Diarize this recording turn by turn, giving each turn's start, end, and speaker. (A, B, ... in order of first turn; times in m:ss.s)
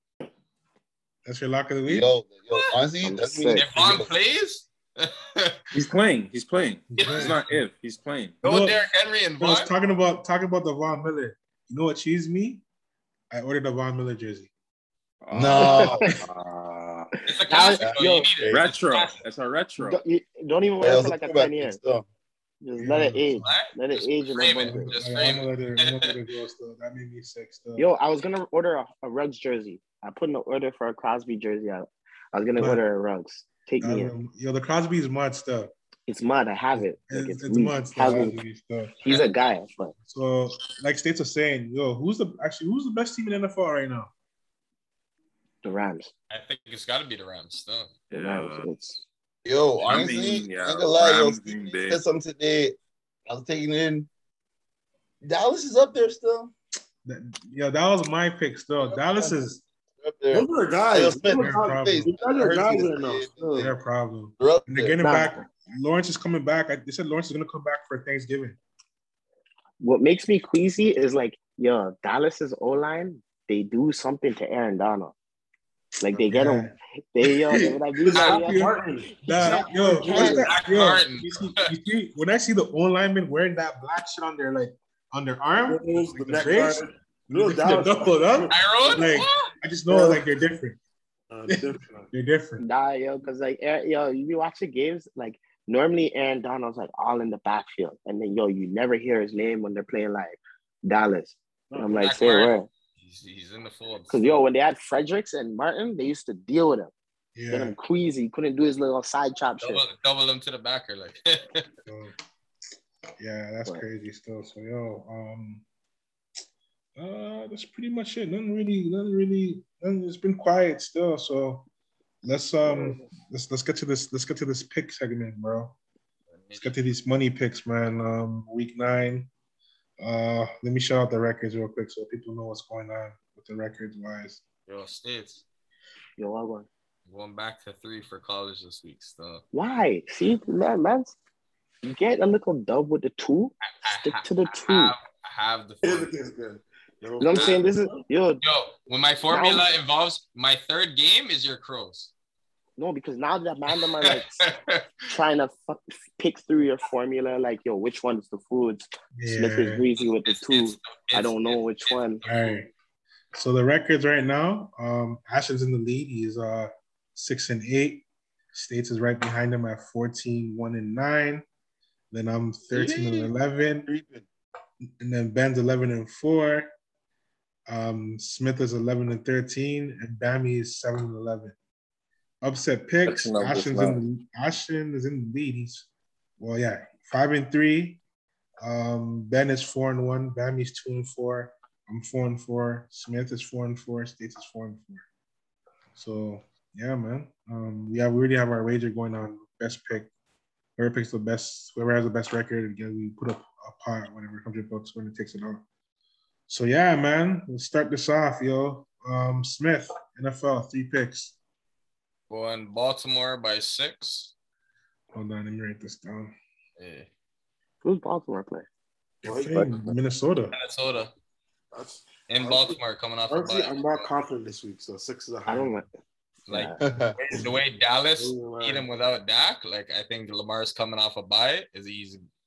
0:01.2-0:02.1 A
0:01.9-0:04.1 B
0:03.0-0:03.7 C
0:03.5-0:05.6 D
0:05.7-0:08.4 E
0:06.9-0:07.7 A
0:07.0-0:07.4 D
0:08.4-0:08.8 A
0:08.4-0:09.7 D
0:09.4-0:12.6 A
0:13.3-0:14.5 A
0:15.2-0:17.2 E
0:15.3-0:16.1 B
0:15.6-0:16.1 C
0:17.3-0:19.2 D
0:17.4-0:18.3 C
0:17.8-0:18.7 B
0:18.5-0:20.0 E
0:19.8-0:21.8 C
0:20.8-0:22.1 B
0:22.6-0:24.9 C
0:22.8-0:23.6 A
0:23.4-0:26.1 D
0:24.6-0:27.9 A
0:27.8-0:34.1 C
0:32.6-0:32.8 A
0:33.8-0:35.7 A
0:36.1-0:38.4 C
0:36.7-0:39.0 A
0:39.0-0:40.0 C
0:40.1-0:44.1 A
0:45.6-0:46.1 C
0:46.3-0:48.0 D
0:48.1-0:48.7 E
0:48.2-0:49.0 C
0:49.4-0:54.1 B
0:49.8-0:52.0 E
0:55.2-0:56.5 B
0:57.0-0:59.6 A
0:58.9-0:59.4 B
1:00.0-1:03.8 B
1:00.3-1:03.3 F
1:01.3-1:02.1 A
1:03.6-1:08.6 A
1:04.4-1:05.0 B
1:05.0-1:05.4 C
1:09.8-1:15.1 C
1:16.0-1:18.7 C
1:16.1-1:30.8 A
1:18.0-1:20.6 F
1:19.3-1:20.5 C
1:20.2-1:21.5 D
1:25.7-1:29.1 F
1:28.5-1:29.5 D
1:29.9-1:30.2 F
1:31.3-1:32.1 F
1:31.5-1:32.6 A
1:32.6-1:42.7 C
1:41.7-1:42.0 F
1:42.0-1:44.4 D
1:44.1-1:46.9 C
1:47.4-1:47.8 A
1:47.5-1:49.8 C
1:49.6-1:51.6 D
1:51.9-1:52.1 A
1:53.2-1:55.6 A
1:57.0-2:01.7 A
2:02.2-2:05.8 A
2:02.6-2:03.1 C
2:06.3-2:06.7 D
2:06.5-2:09.3 A
2:10.0-2:14.4 A
2:14.7-2:15.4 D
2:16.2-2:16.7 C
2:17.1-2:19.4 D
2:19.5-2:21.2 C
2:21.8-2:24.9 C
2:23.7-2:26.1 D
2:25.8-2:28.1 F
2:27.2-2:28.4 C
2:27.4-2:27.6 D
2:28.4-2:32.1 D
2:29.3-2:29.7 C
2:32.8-2:34.4 C
2:33.7-2:35.1 D
2:35.1-2:42.2 C
2:39.2-2:39.8 A
2:40.0-2:42.6 D
2:42.2-2:42.7 A
2:43.3-2:51.4 A
2:52.1-2:53.9 A
2:52.7-2:54.2 B
2:55.0-2:56.7 A
2:57.7-3:01.6 A
3:02.4-3:05.9 A
3:03.0-3:04.0 E
3:06.4-3:08.0 A
3:08.6-3:15.0 A
3:16.0-3:20.1 A
3:20.8-3:25.6 A
3:26.5-3:31.4 A
3:32.3-3:34.3 D
3:35.1-3:36.3 A
3:36.8-3:37.1 D
3:37.8-3:38.7 C
3:39.2-3:40.6 A
3:39.2-3:39.7 F
3:39.6-3:39.8 E
3:40.5-3:41.1 D
3:41.7-3:45.7 F
3:42.3-3:44.1 D
3:45.5-3:45.9 C
3:46.5-3:46.8 C
3:46.5-3:52.3 D
3:46.8-3:47.2 B
3:47.2-3:47.6 F
3:48.2-3:48.9 F